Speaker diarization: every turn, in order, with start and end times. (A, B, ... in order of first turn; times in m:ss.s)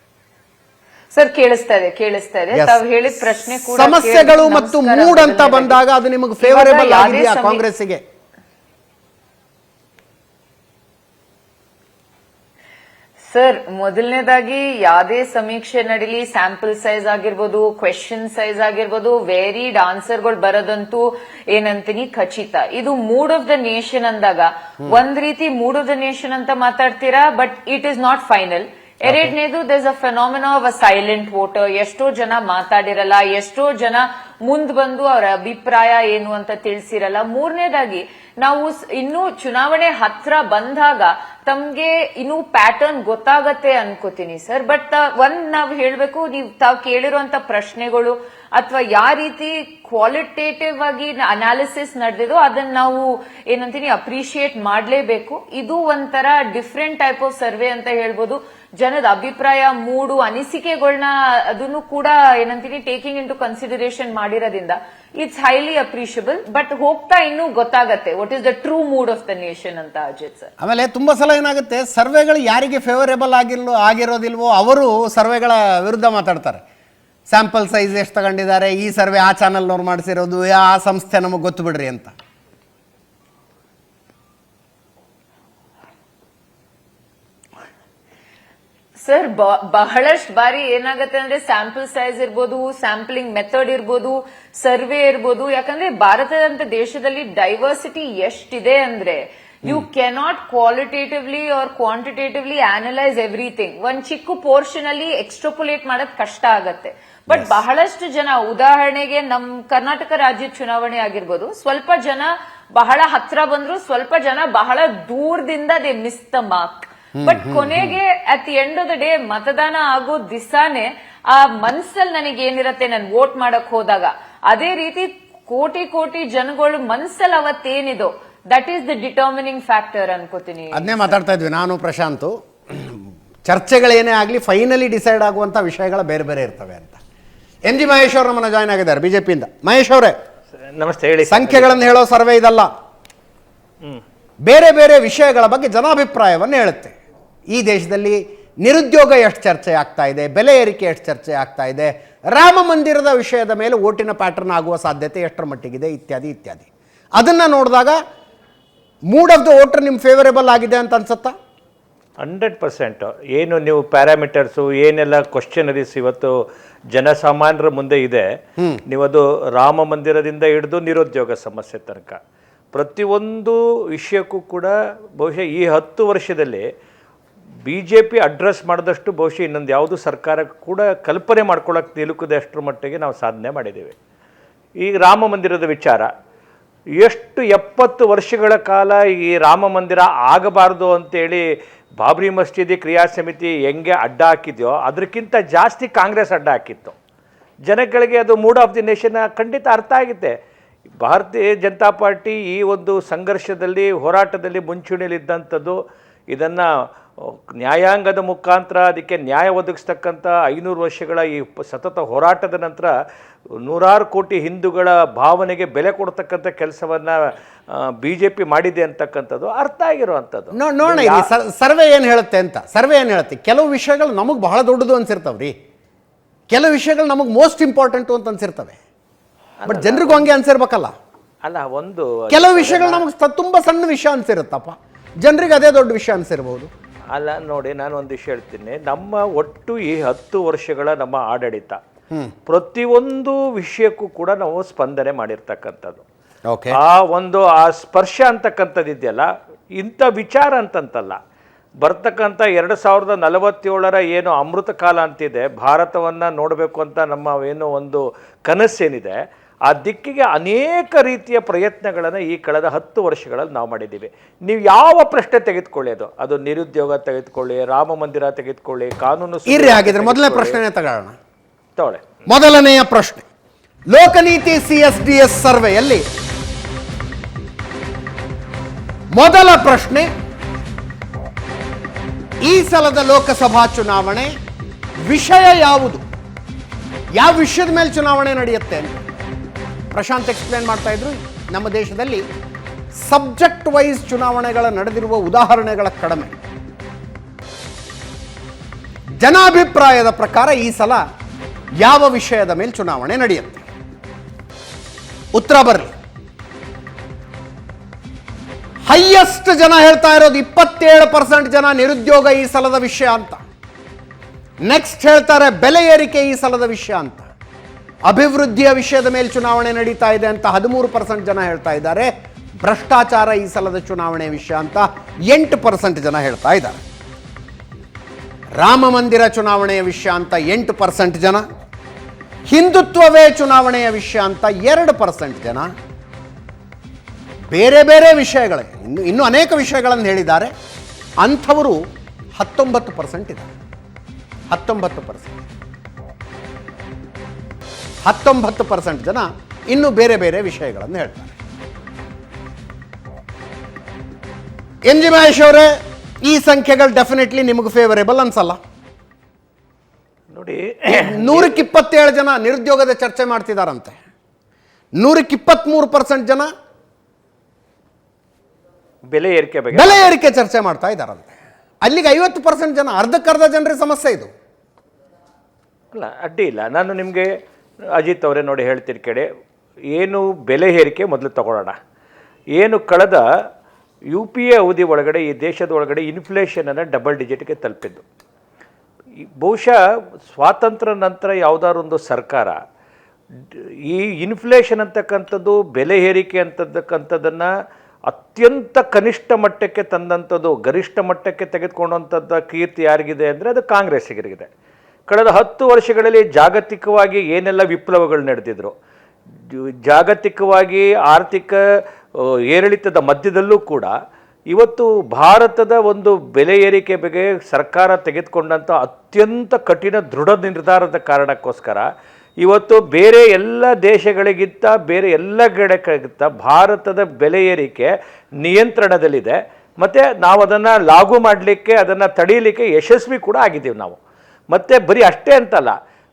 0:01.1-0:05.8 A
0:02.5-0:02.8 B
0:03.5-0:08.0 B
0:06.4-0:07.6 A
0:13.3-1:10.5 A
1:10.6-1:16.6 B
1:17.3-1:22.1 B
1:29.0-2:11.2 A
1:47.3-1:47.6 B
1:57.2-1:57.9 B
2:10.8-2:17.0 B
2:17.6-2:20.2 B
2:20.6-2:21.9 C
2:21.2-2:22.7 B
2:24.4-2:27.0 B
2:27.5-2:38.0 B
2:39.1-2:41.3 B
2:42.2-2:46.3 C
2:46.9-2:48.3 C
2:48.9-2:52.2 C
2:52.7-2:56.7 C
2:57.7-3:04.0 C
3:04.8-3:06.1 C
3:07.0-3:11.5 C
3:12.0-3:17.0 C
3:17.7-3:20.3 C
3:21.0-3:25.8 C
3:26.3-3:26.7 C
3:27.2-3:32.9 C
3:33.6-3:37.2 C
3:37.7-3:41.3 C
3:40.5-3:45.5 B
3:46.5-3:48.8 B
3:49.6-3:50.4 C
3:49.7-3:50.9 B
3:51.4-3:53.1 C
3:52.3-3:56.7 B
3:57.1-4:01.8 C
4:02.5-4:06.0 C
4:06.5-4:06.8 B
4:06.8-4:11.2 C
4:11.8-4:19.2 C
4:19.7-4:30.6 C
4:29.5-4:31.2 B
4:31.8-4:32.2 C
4:32.3-4:33.3 B
4:33.9-4:36.0 B
4:39.1-4:40.1 B
4:42.4-4:44.3 B
4:45.0-4:46.0 B
4:47.2-4:49.0 B
4:49.9-4:52.2 B
4:53.0-4:56.4 B
4:59.2-5:01.0 B
5:01.8-5:03.6 B
5:05.4-5:05.9 B
5:08.9-5:13.4 B
5:14.6-5:17.3 B
5:18.0-5:22.1 B
5:22.6-5:26.8 B
5:28.6-5:31.4 B
5:32.5-5:35.7 B
5:37.5-5:40.5 B
5:41.2-5:41.8 B
5:42.4-5:43.5 B
5:44.5-5:45.4 B
5:48.0-5:51.4 B
5:54.8-5:55.7 B
5:56.2-5:58.6 B
6:00.3-6:01.7 C
6:00.9-6:04.0 B
6:05.0-6:06.5 B
6:09.1-6:10.2 C
6:09.7-6:14.3 B
6:15.9-6:17.3 C
6:18.0-6:19.3 C
6:19.9-6:21.8 C
6:22.6-6:23.2 C
6:24.1-6:28.0 C
6:29.4-6:29.8 C
6:30.3-6:32.6 C
6:33.4-6:37.5 C
6:38.1-6:44.5 C
6:45.1-6:48.7 C
6:49.5-6:51.6 C
6:52.2-6:53.9 C
6:54.5-7:01.9 C
7:02.4-7:14.0 C
7:14.5-7:15.8 C